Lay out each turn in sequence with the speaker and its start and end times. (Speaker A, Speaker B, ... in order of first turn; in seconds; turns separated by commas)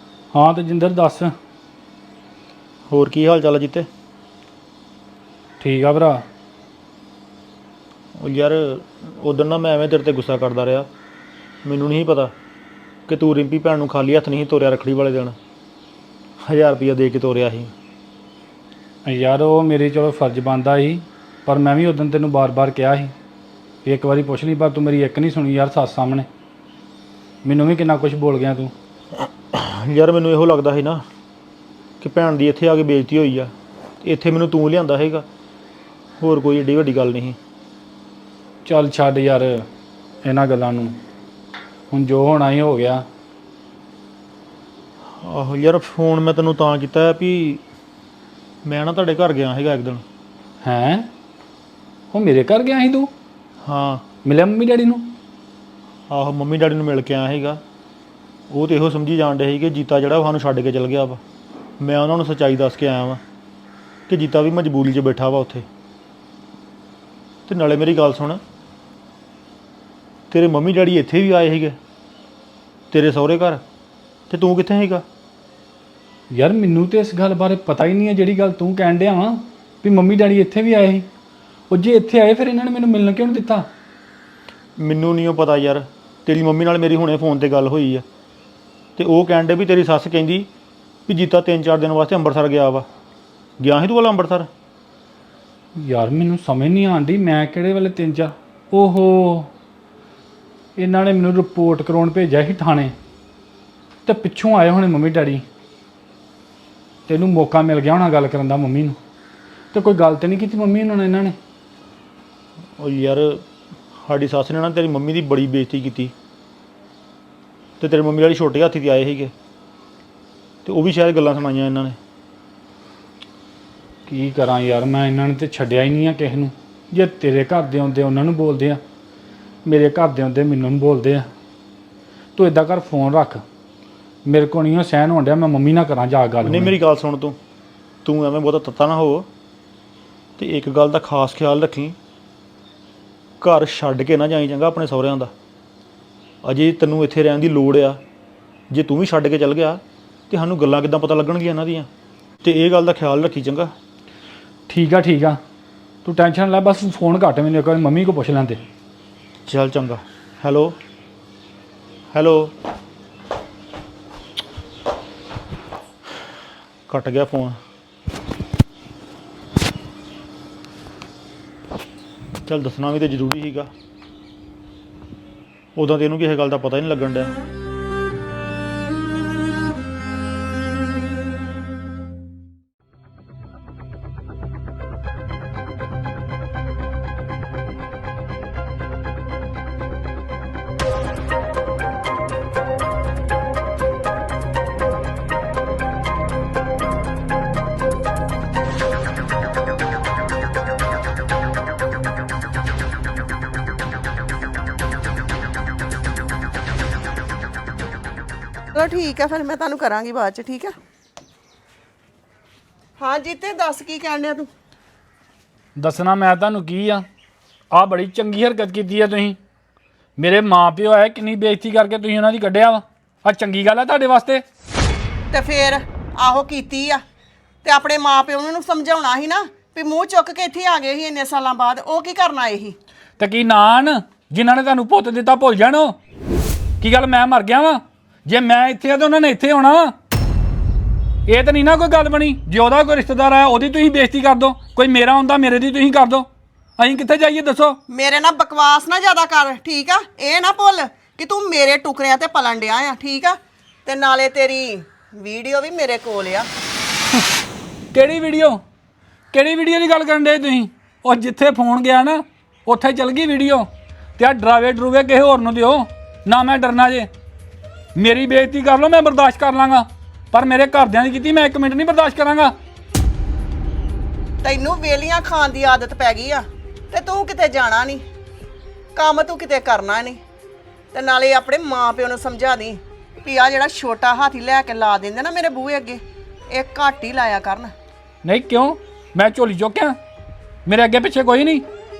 Speaker A: 0.3-1.3, Speaker B: 2.9-3.9, Speaker A: 5.6-6.2, Speaker B: 8.2-10.9, Speaker B: 11.6-12.3, Speaker B: 13.1-15.3, Speaker B: 16.4-17.7, Speaker A: 19.1-23.1, Speaker A: 23.8-26.3, Speaker A: 27.4-28.7, Speaker B: 29.5-31.0, Speaker B: 32.0-33.5, Speaker B: 34.0-35.2, Speaker B: 36.2-37.4, Speaker A: 38.6-39.6, Speaker A: 40.2-41.0, Speaker A: 41.9-43.0, Speaker B: 45.2-47.6, Speaker B: 48.6-50.0, Speaker A: 50.6-51.1, Speaker A: 52.1-53.1, Speaker B: 53.6-54.0, Speaker A: 54.2-55.1, Speaker B: 56.1-57.6, Speaker B: 58.5-61.2, Speaker B: 61.8-63.2, Speaker B: 64.1-65.7, Speaker B: 67.5-68.4, Speaker B: 70.3-71.8, Speaker B: 72.9-73.6, Speaker B: 74.3-75.0, Speaker A: 76.3-81.1, Speaker A: 81.7-83.7, Speaker B: 84.8-88.0, Speaker B: 89.0-90.5, Speaker B: 91.1-92.9, Speaker B: 93.6-94.5, Speaker A: 95.8-99.5, Speaker A: 100.8-102.9, Speaker A: 104.0-105.4, Speaker A: 107.1-109.0, Speaker A: 109.7-111.3, Speaker B: 112.8-116.1, Speaker B: 117.8-119.3, Speaker B: 120.6-122.0, Speaker A: 124.1-128.8, Speaker A: 129.6-131.2, Speaker A: 132.3-133.4, Speaker A: 134.2-136.7, Speaker B: 136.4-137.4, Speaker B: 138.0-139.3, Speaker B: 140.4-142.0, Speaker B: 143.4-145.3, Speaker B: 146.4-148.0, Speaker B: 148.7-151.9, Speaker B: 152.4-153.7, Speaker A: 154.7-155.4, Speaker A: 156.0-158.6, Speaker B: 159.5-160.8, Speaker B: 162.1-162.5, Speaker B: 166.9-167.6, Speaker B: 172.4-173.7, Speaker B: 175.8-177.3, Speaker C: 208.7-210.7, Speaker C: 213.0-214.5, Speaker A: 215.8-217.0, Speaker A: 217.7-219.4, Speaker A: 220.2-224.4, Speaker C: 225.3-227.0, Speaker C: 227.6-232.8, Speaker A: 233.2-235.9, Speaker A: 236.8-239.9, Speaker A: 241.3-246.2, Speaker A: 246.8-247.8, Speaker C: 247.9-256.5, Speaker A: 257.9-258.6, Speaker A: 259.3-267.1, Speaker A: 267.9-272.5, Speaker C: 274.4-278.0, Speaker C: 278.9-280.2, Speaker C: 280.9-287.7, Speaker A: 288.2-289.9, Speaker A: 290.6-291.6